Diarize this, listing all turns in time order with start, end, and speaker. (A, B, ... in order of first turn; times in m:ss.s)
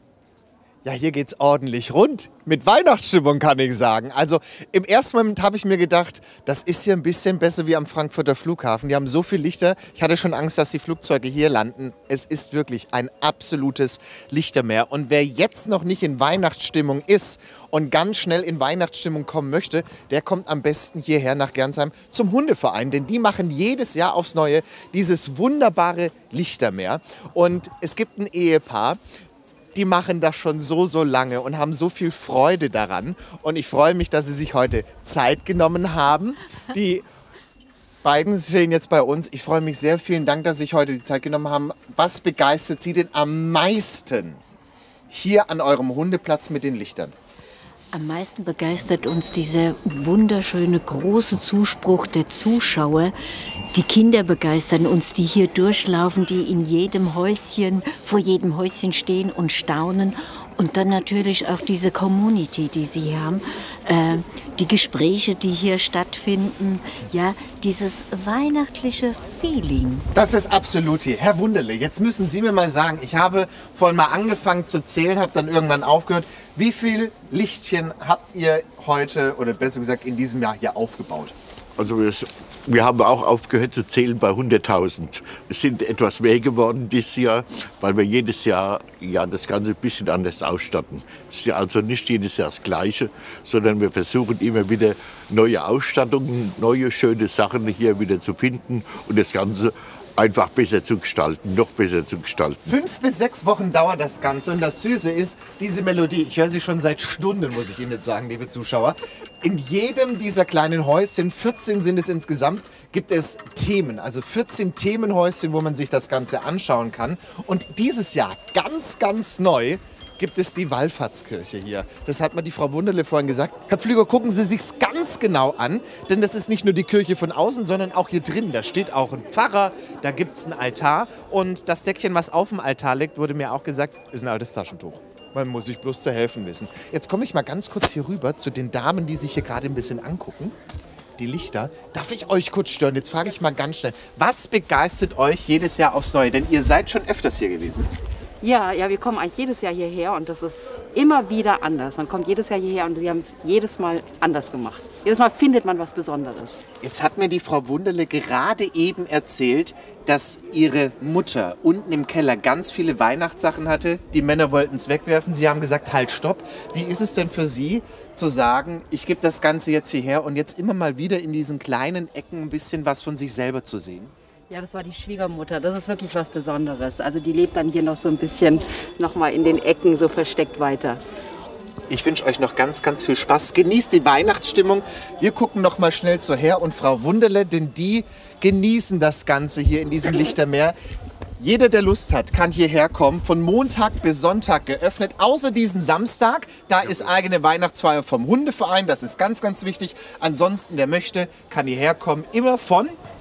0:00.8-0:29.0 A
0:29.8-0:37.0 A
0:38.0-0:44.4 A
0:45.1-0:47.2 A
0:47.9-0:53.2 B
0:53.7-1:10.1 B
1:10.1-1:21.4 A
1:21.8-1:42.7 C
1:42.7-2:20.5 A
2:21.2-2:27.9 A
2:28.4-2:36.6 D
2:36.8-2:54.1 A
2:54.5-3:01.0 D
3:01.9-3:10.8 A
3:11.4-3:23.0 A